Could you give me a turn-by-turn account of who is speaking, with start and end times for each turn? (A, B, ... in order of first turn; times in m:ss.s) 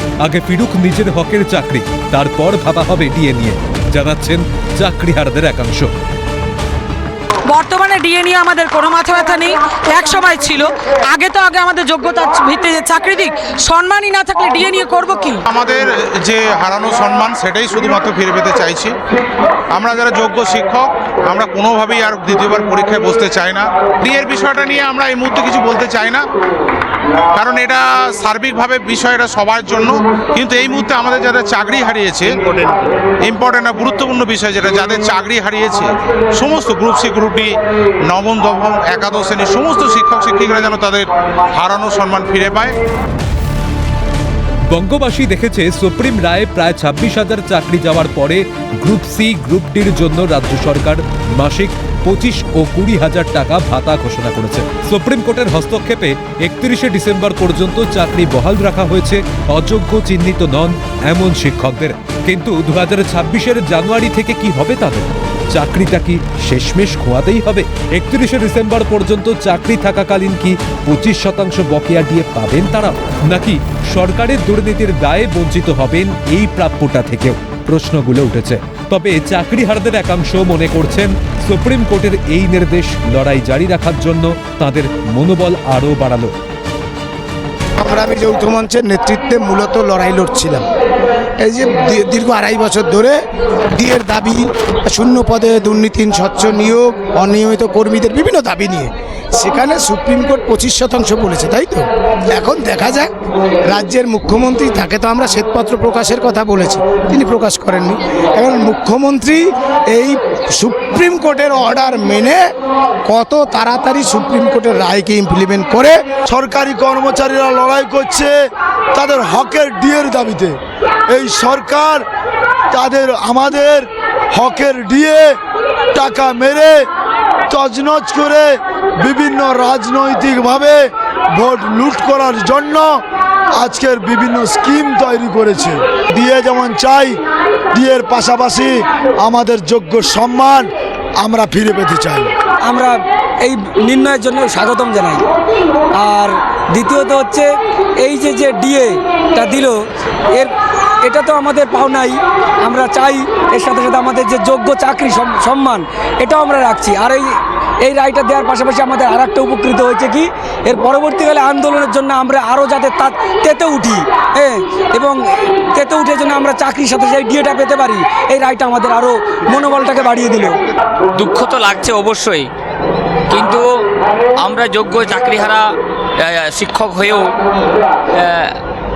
0:00.2-0:05.9 A
0:07.5-0:15.4 B
0:15.5-0:19.0 C
0:19.7-0:26.3 C
0:27.3-0:42.8 C
0:44.7-1:26.3 A
1:27.8-1:30.6 D
1:31.4-1:43.1 D
1:43.7-1:52.5 D
1:53.0-1:56.2 D
1:56.2-2:00.6 E
2:01.1-2:02.0 E
2:02.7-2:05.4 E
2:05.9-2:06.9 E
2:07.5-2:13.0 E
2:13.5-2:17.2 E
2:17.7-2:22.3 E
2:22.7-2:25.2 F
2:26.0-2:27.5 F
2:28.0-2:29.8 F
2:31.0-2:45.2 F
2:45.8-2:50.6 F
2:51.2-2:52.5 G
2:53.3-2:53.6 G
2:54.4-2:55.6 G
2:56.2-2:57.3 G
2:58.2-2:58.5 G